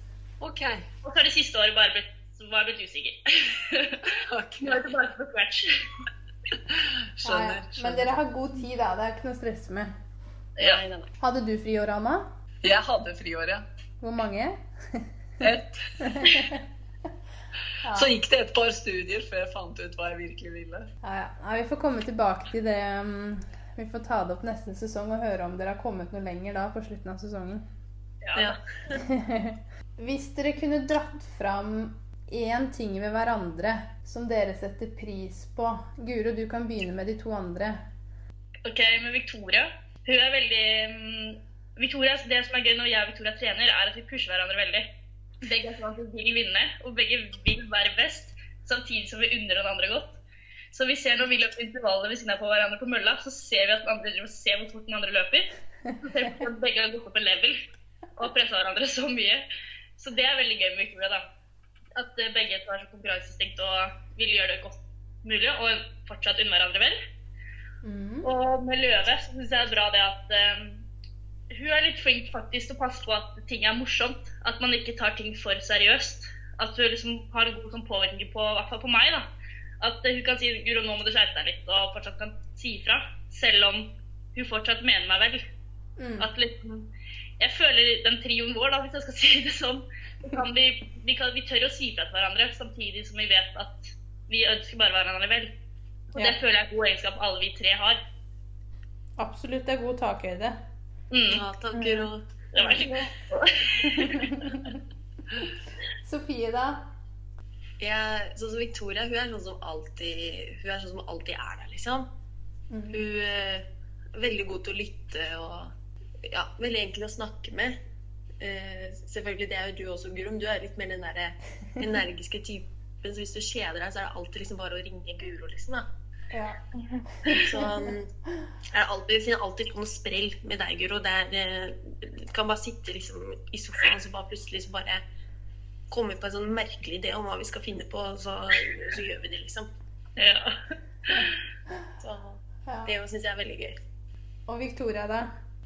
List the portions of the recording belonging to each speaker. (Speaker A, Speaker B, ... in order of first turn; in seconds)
Speaker A: 0.4-0.8, 4.0-4.9, 6.7-8.2, 12.6-13.6, 15.4-16.5, 17.9-20.9
Speaker B: 1.0-5.9, 10.6-10.8, 28.2-28.6, 38.6-44.9, 45.4-50.2, 50.7-57.6, 58.2-59.4, 60.0-61.2, 61.9-67.0, 68.2-70.8, 71.5-79.3, 79.8-85.4, 86.2-86.9, 87.4-95.5, 96.1-98.0, 101.1-104.4, 140.2-141.3
Speaker C: 7.2-9.9, 11.2-12.3, 14.0-15.1, 16.0-16.6, 17.8-18.1, 21.0-27.6, 29.0-37.8, 67.8-68.3, 86.0-86.3, 99.2-100.6, 104.0-104.6, 106.0-106.8, 112.7-113.0, 126.3-126.6, 127.2-127.8, 142.7-142.9, 144.5-145.3
Speaker D: 10.6-11.1, 28.3-29.0, 101.3-103.0, 107.8-112.1, 112.9-113.6, 114.2-115.7, 116.2-117.8, 118.4-125.8, 127.3-128.1, 128.7-135.0, 135.9-139.7, 142.0-143.8